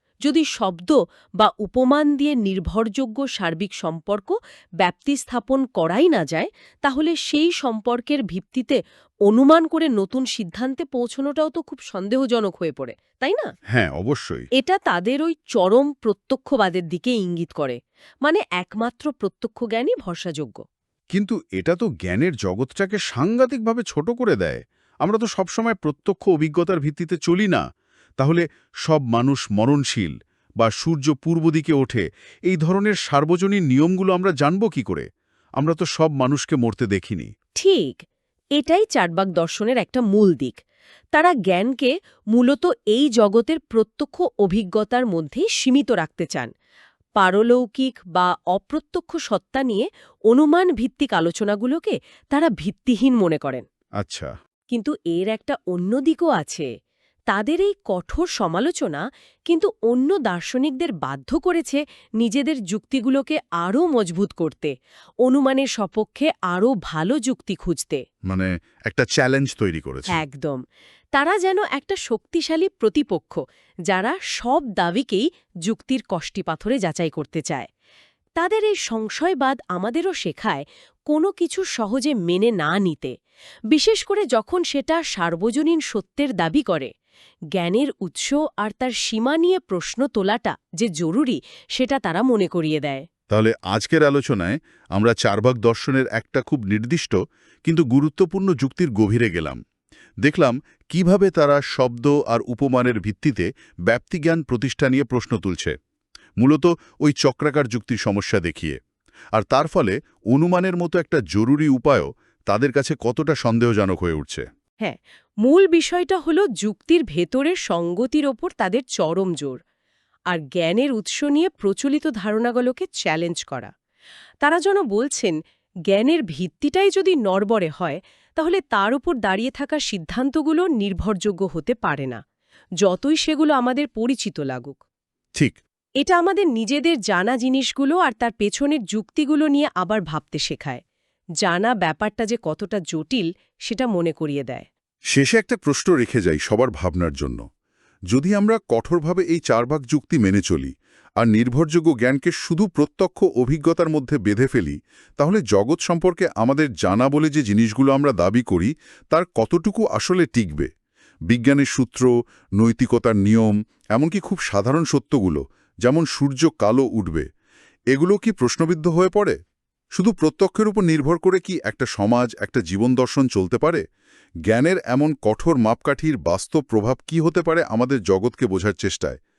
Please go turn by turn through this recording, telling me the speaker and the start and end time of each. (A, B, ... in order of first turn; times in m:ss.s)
0:00.2-0:13.5 A
0:13.7-0:14.5 B
0:14.6-0:20.6 A
0:21.1-0:27.6 B
0:28.2-0:35.1 B
0:35.6-0:37.3 B
0:37.6-0:38.0 A
0:38.6-0:40.6 A
0:41.1-0:46.5 A
0:47.2-0:53.6 A
0:54.0-0:54.3 B
0:54.7-0:56.7 A
0:57.3-1:04.7 A
1:05.2-1:08.0 A
1:08.3-1:10.2 B
1:10.1-1:10.6 A
1:11.1-1:17.7 A
1:18.4-1:23.1 A
1:23.7-1:26.9 A
1:27.6-1:33.1 A
1:33.3-1:39.6 B
1:40.2-1:45.8 B
1:46.4-1:48.8 B
1:49.4-1:54.5 B
1:54.8-1:59.6 A
2:00.3-2:03.7 A
2:04.4-2:05.4 A
2:05.9-2:12.2 A
2:12.8-2:14.8 A
2:16.0-2:20.8 A
2:21.4-2:24.7 A
2:25.1-2:27.4 B
2:28.1-2:40.7 B
2:41.3-2:47.3 B
2:47.9-2:49.4 B
2:50.0-2:53.8 B
2:54.5-2:59.2 B